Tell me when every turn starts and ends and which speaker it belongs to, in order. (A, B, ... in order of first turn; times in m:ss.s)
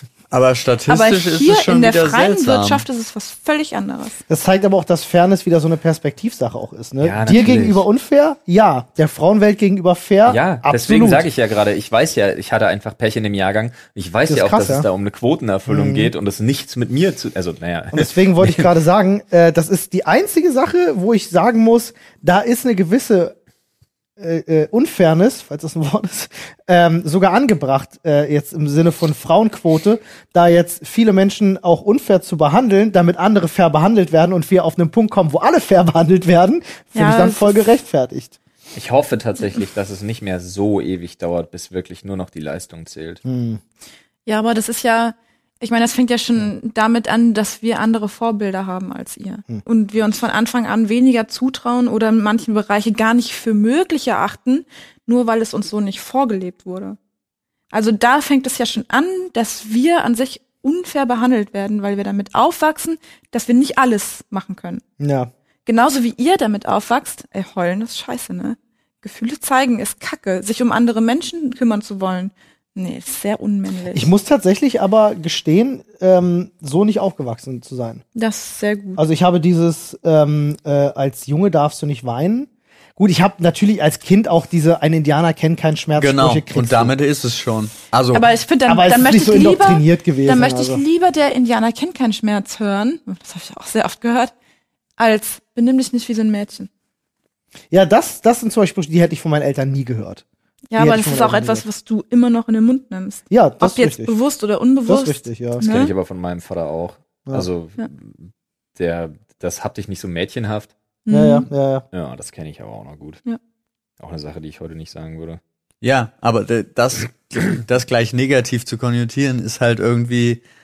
0:00.3-0:02.8 A
0:00.9-0:04.2 B
0:04.3-0:11.3 C
0:07.0-0:07.8 D
0:10.3-0:18.6 D
0:14.3-0:14.9 C
0:15.7-0:16.1 C
0:17.9-0:23.4 C
0:24.2-0:38.4 C
0:37.0-0:37.7 B
0:38.7-0:43.2 D
0:43.2-0:43.6 C
0:44.3-0:57.0 B
0:57.7-1:04.8 B
1:05.0-1:05.3 C
1:05.7-1:14.1 B
1:13.9-1:18.0 C
1:18.2-1:19.0 B
1:19.0-1:27.0 C
1:26.0-1:28.3 A
1:28.1-1:34.3 B
1:28.7-1:30.8 C
1:35.0-1:36.7 B
1:37.7-1:40.2 C
1:40.7-1:45.9 B
1:40.8-1:41.6 C
1:43.3-1:44.2 C
1:44.9-1:45.6 C
1:45.6-1:50.7 D
1:51.1-1:51.5 B
1:51.1-1:51.8 C
1:51.9-1:53.2 D
1:54.0-1:55.4 D
1:55.8-2:00.4 A